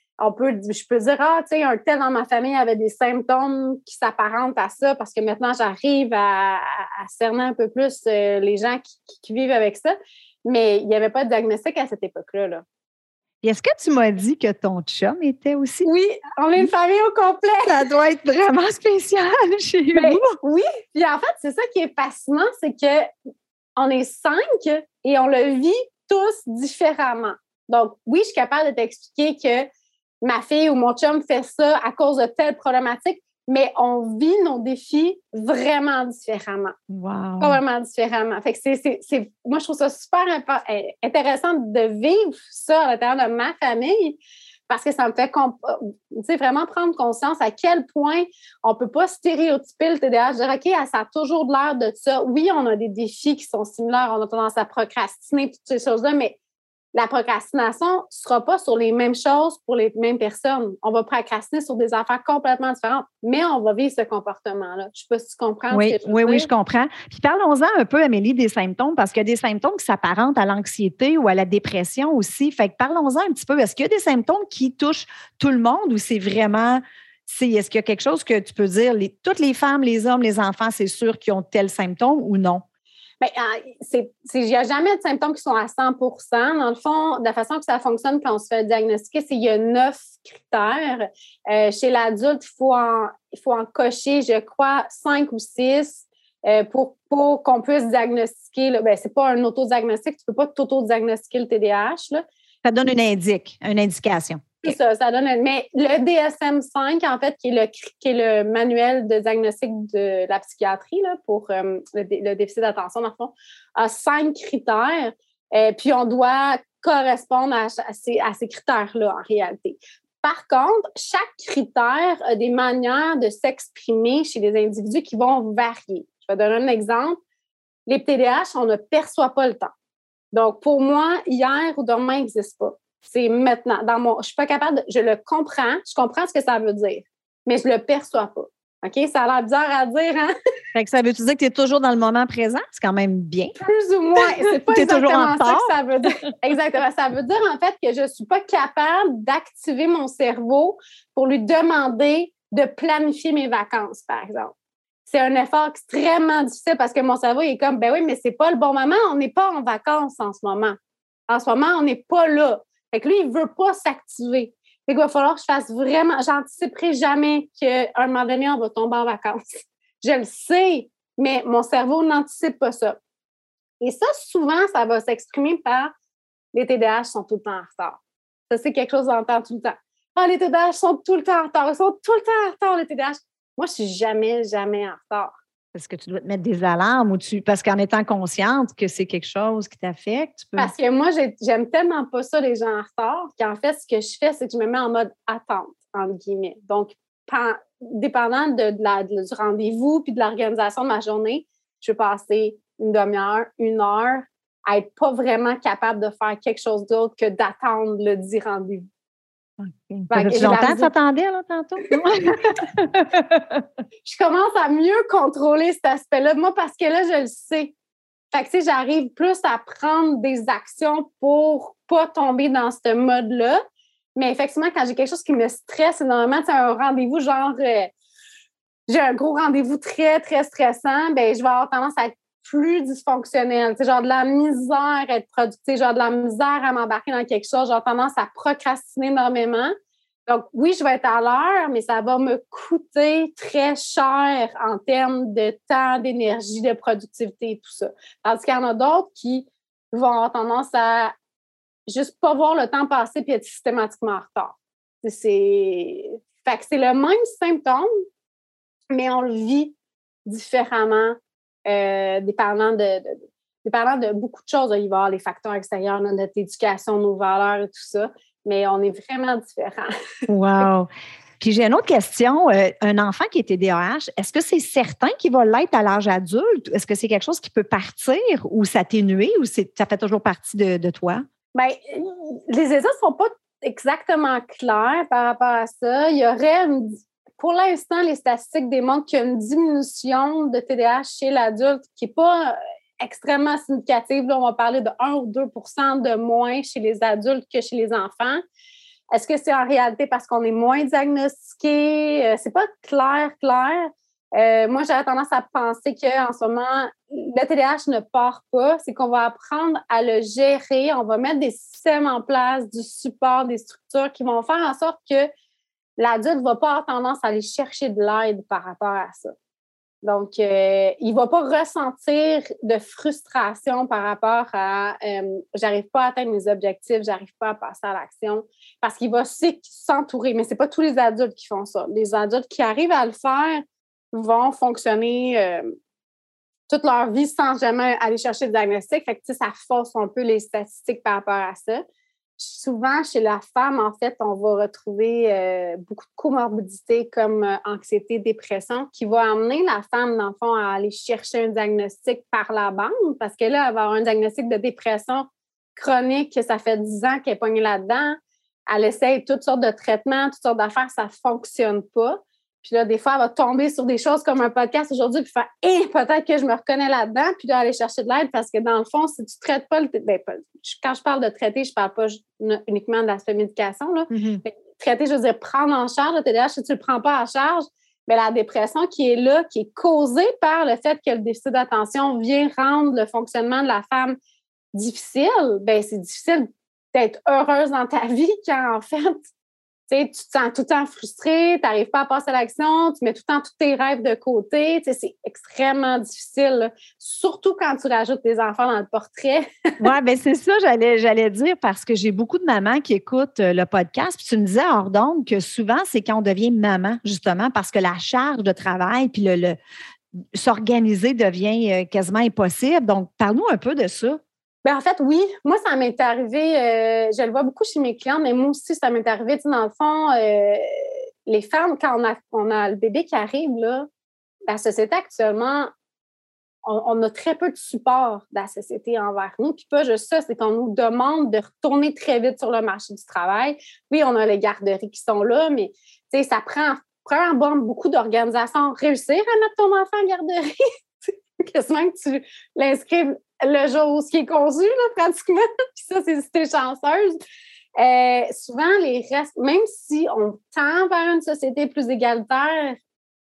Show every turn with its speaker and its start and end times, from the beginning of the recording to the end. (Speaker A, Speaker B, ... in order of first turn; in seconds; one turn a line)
Speaker A: 0.2-12.7
Speaker B: 13.4-15.9
Speaker A: 15.8-17.8
Speaker B: 17.6-20.4
Speaker A: 19.9-23.1
Speaker A: 23.8-29.7
Speaker A: 30.2-36.8
Speaker B: 36.9-37.6
Speaker A: 37.4-56.4
Speaker A: 56.9-66.5
Speaker B: 65.7-82.6
Speaker A: 83.2-102.2
Speaker B: 102.6-104.8
Speaker A: 104.6-127.2
Speaker A: 127.9-129.7
Speaker A: 130.3-140.3
Speaker B: 140.7-143.6
Speaker A: 143.6-154.5
Speaker B: 144.2-146.1
Speaker A: 155.1-160.8
Speaker A: 161.3-173.0
Speaker A: 173.8-175.9
Speaker A: 176.5-185.3
Speaker B: 185.7-190.7
Speaker A: 190.6-208.9
Speaker B: 209.6-213.7
Speaker A: 210.1-210.9
Speaker A: 211.9-212.6
Speaker A: 214.1-217.7
Speaker A: 218.3-223.6
Speaker A: 224.2-227.9
Speaker A: 228.9-239.7
Speaker A: 240.3-251.1
Speaker A: 251.9-257.9
Speaker A: 258.9-269.9
Speaker B: 270.3-281.2
Speaker A: 281.5-298.4
Speaker A: 299.1-315.3
Speaker A: 316.0-319.4
Speaker A: 320.0-335.7
Speaker A: 336.7-341.8
Speaker A: 342.4-384.2
Speaker B: 374.1-374.4
Speaker A: 384.8-389.3
Speaker A: 389.9-399.7
Speaker B: 399.8-409.6
Speaker B: 410.3-414.2
Speaker A: 414.6-423.9
Speaker A: 424.5-425.7
Speaker A: 426.6-440.5
Speaker A: 441.1-447.2
Speaker A: 447.8-452.8